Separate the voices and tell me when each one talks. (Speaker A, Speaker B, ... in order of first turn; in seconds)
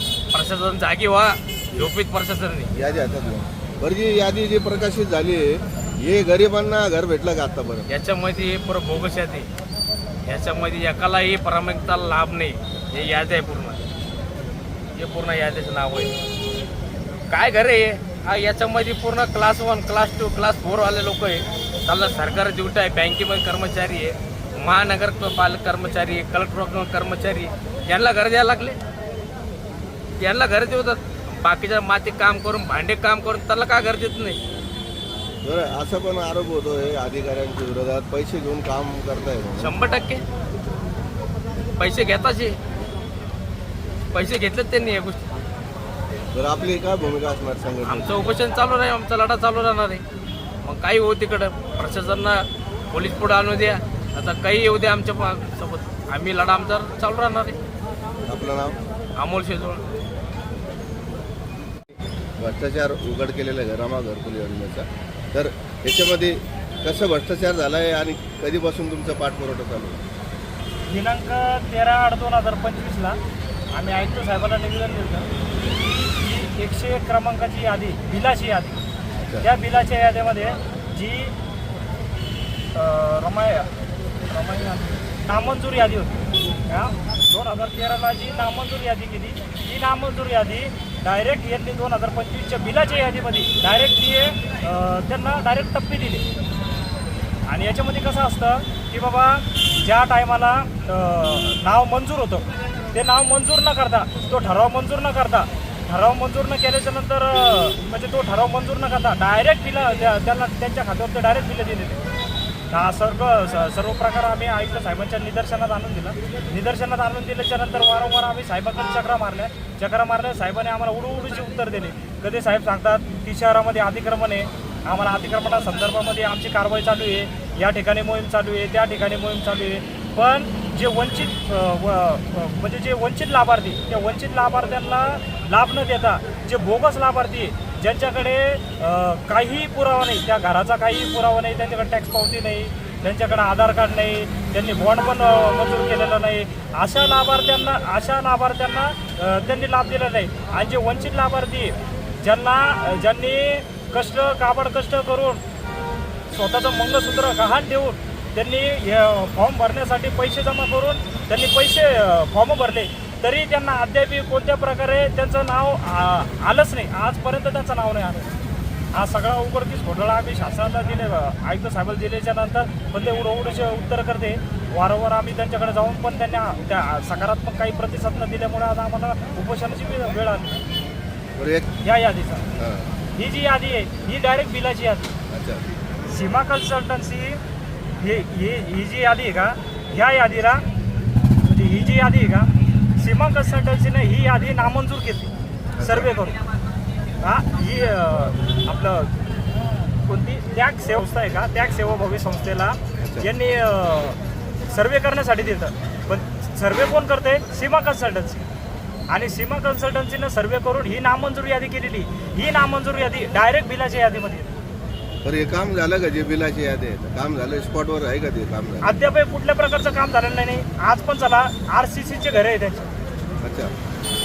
Speaker A: 0.3-2.7, 7.9-9.5, 10.3-13.8, 15.0-16.1, 17.3-28.8, 30.2-34.4, 39.6-40.2, 41.8-42.6, 44.1-45.2, 47.8-50.0, 50.6-57.6, 59.2-59.9
Speaker B: 2.8-7.9, 35.4-39.8, 46.3-48.3, 58.3-58.8, 62.4-70.0, 181.4-181.7, 182.6-182.9, 185.3-185.6, 195.8-196.1, 203.0-203.3, 215.2-218.9, 223.4-223.7
Speaker C: 70.9-73.2, 73.7-78.8, 79.4-81.4, 82.7-83.7, 84.3-96.3, 97.5-112.0, 112.7-155.4, 156.3-168.3, 168.9-180.6, 181.8-182.5, 183.2-185.1, 186.1-187.4, 188.0-190.7, 191.4-195.3, 195.8-196.4, 197.2-199.2, 200.0-208.5, 209.1-214.6, 218.8-222.9